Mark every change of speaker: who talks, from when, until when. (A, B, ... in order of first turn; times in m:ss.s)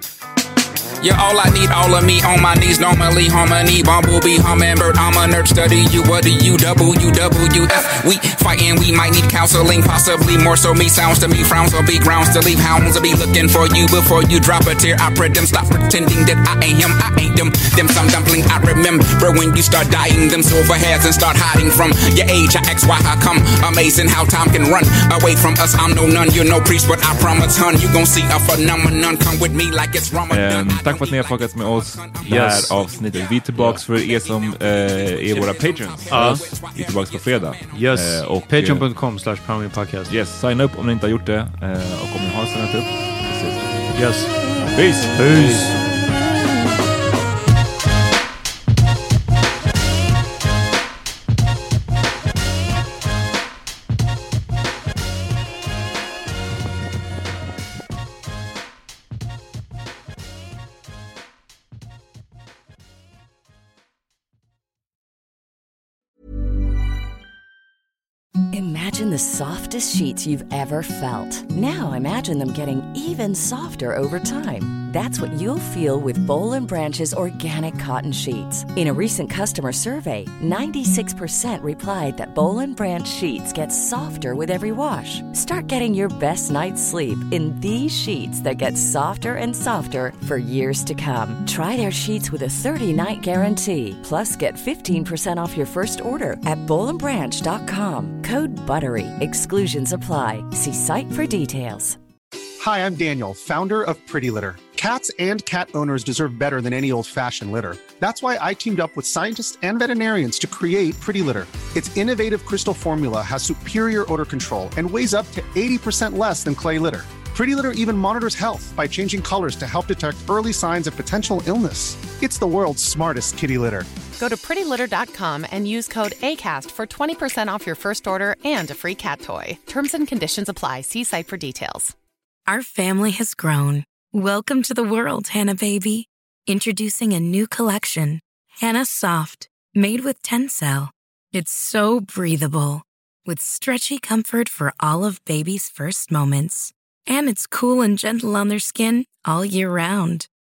0:01.0-0:32.2 A
0:30.3-0:38.8 B
0:32.2-0:32.8 C
0:33.5-0:33.8 C
0:34.9-0:37.3 A
0:36.1-0:36.5 C
0:37.7-0:40.1 C
0:40.1-0:43.9 B
0:43.9-0:44.3 C
0:44.6-0:45.7 B
0:45.1-0:45.8 C
1:08.5-1:42.0 D
1:42.6-2:03.9 E
2:04.2-2:11.9 F
2:12.5-2:30.3 G